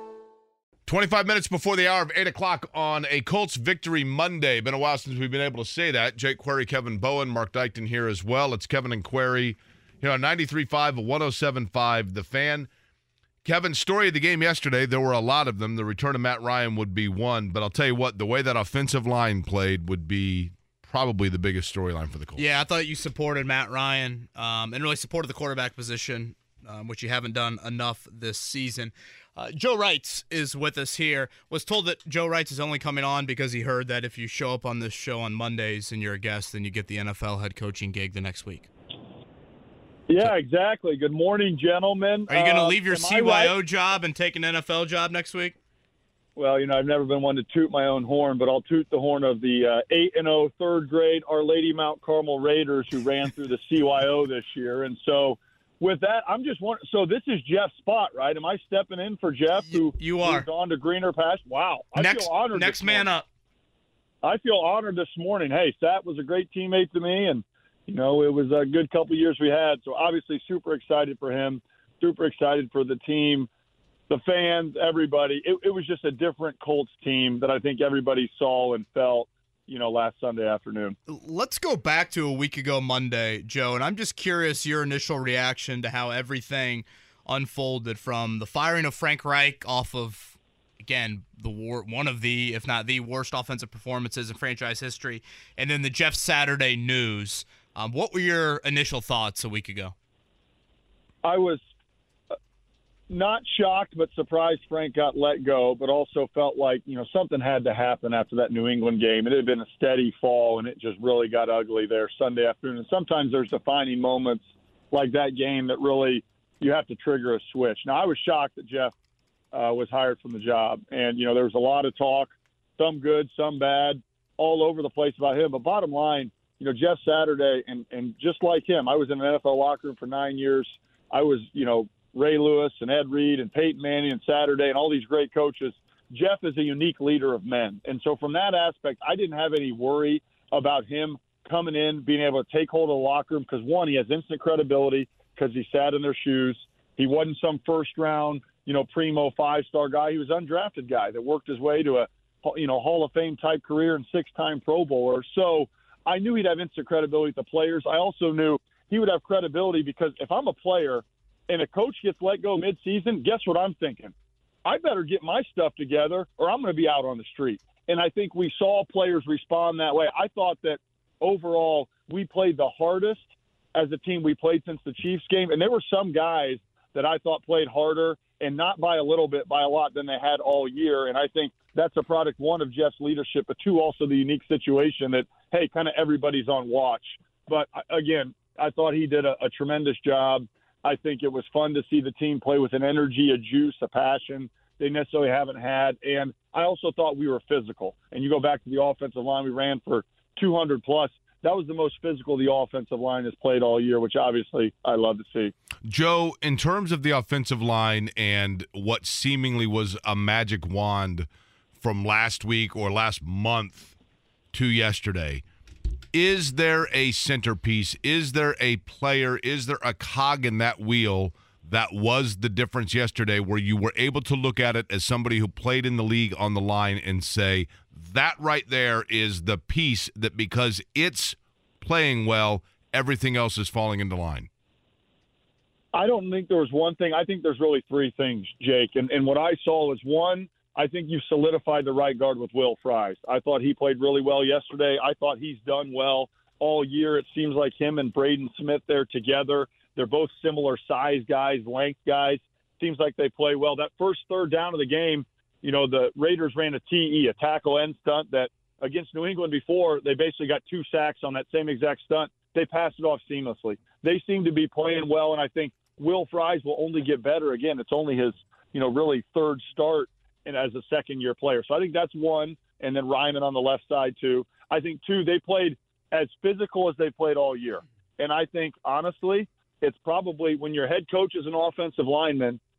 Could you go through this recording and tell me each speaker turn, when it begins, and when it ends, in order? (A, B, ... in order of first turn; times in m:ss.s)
0:00.9-0:12.7 A
0:13.4-0:22.4 A
0:22.4-0:38.7 B
0:40.1-0:43.6 C
0:42.3-0:45.6 B
0:46.4-1:03.1 C
0:59.6-1:00.4 B
1:02.0-1:03.2 B
1:04.2-1:13.5 C
1:14.1-1:21.0 C
1:21.1-1:39.9 B
1:41.2-1:41.6 C
1:43.1-1:58.9 C
1:59.5-2:44.1 C
2:44.6-3:25.5 C
3:25.8-3:31.3 A
3:31.8-3:33.9 A
3:34.5-3:35.4 A
3:36.1-3:54.5 A
3:55.9-4:42.6 C